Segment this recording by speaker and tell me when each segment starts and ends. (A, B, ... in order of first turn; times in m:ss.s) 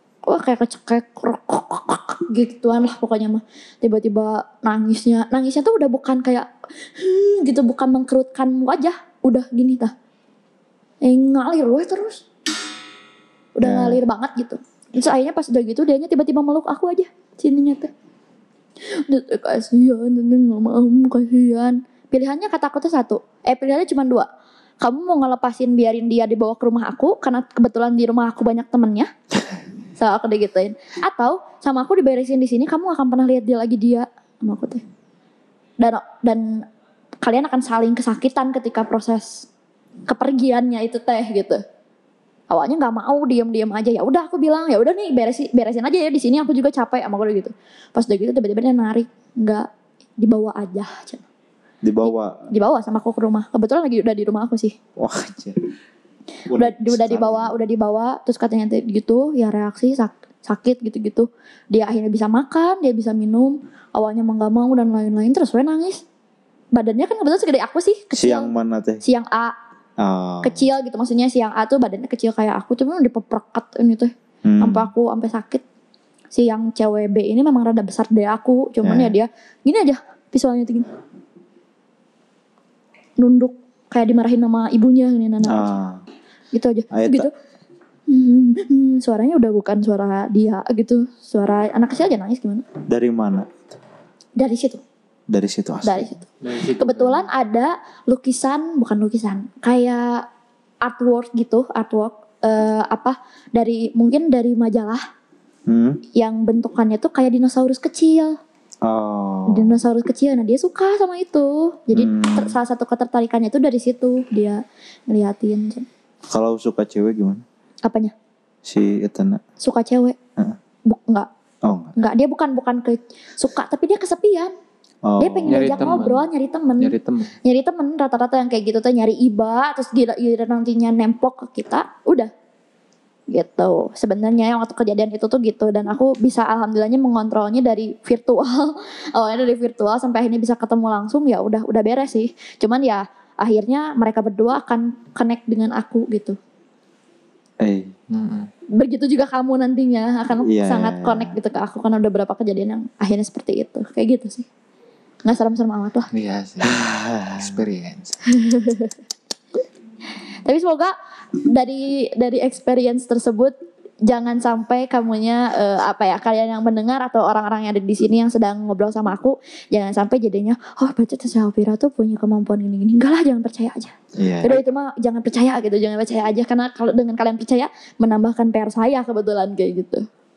0:00.2-0:09.9 A
0:11.0-0:12.2 A
0:13.6-0:17.9 A
0:13.6-0:14.0 B
0:18.9-0:24.3 A
0:24.8-0:29.1 A
0:30.0-0:34.8 A
0:35.8-0:36.6 A
0:37.2-0:39.5 A
0:40.1-0:41.6 A
0:42.5-0:49.7 A
0:50.2-0:51.2 A
0:51.8-0:52.4 B
0:52.0-0:54.8 A
0:55.0-0:55.6 B
0:56.5-0:57.5 B
0:56.5-1:06.0 A
1:06.7-1:08.5 A
1:08.2-1:09.0 B
1:09.0-1:09.5 A
1:10.0-1:10.6 B
1:10.4-1:15.6 A
1:14.4-1:14.9 B
1:16.3-1:20.9 A
1:18.8-1:19.2 B
1:23.2-1:25.7 A
1:25.4-1:26.0 B
1:26.5-1:27.3 A
1:26.9-1:27.3 B
1:28.1-1:32.6 A
1:32.9-1:33.5 B
1:34.4-1:34.8 A
1:35.3-1:36.2 B
1:35.8-1:36.2 A
1:36.4-1:37.3 C
1:36.8-1:40.3 A
1:40.8-1:45.0 A
1:45.7-1:46.0 B
1:46.2-1:48.4 A
1:48.8-1:49.8 B
1:49.5-1:55.9 A
1:51.9-1:52.6 B
1:56.3-1:57.4 B
1:57.8-1:58.1 A
1:58.6-1:59.4 B
1:59.6-2:00.2 A
2:00.9-2:01.3 A
2:01.6-2:02.0 B
2:02.0-2:04.5 A
2:05.0-2:06.0 B
2:05.2-2:12.3 A
2:05.5-2:06.3 C
2:06.8-2:07.4 C
2:13.3-2:26.4 A
2:27.6-2:27.9 B
2:28.1-2:28.5 C
2:28.7-2:34.5 A
2:30.5-2:31.4 B
2:35.2-2:36.1 A
2:36.1-2:38.2 C
2:36.6-2:37.6 B
2:38.3-2:39.0 A
2:40.5-2:43.5 A
2:44.0-3:00.1 A
2:54.2-2:54.6 B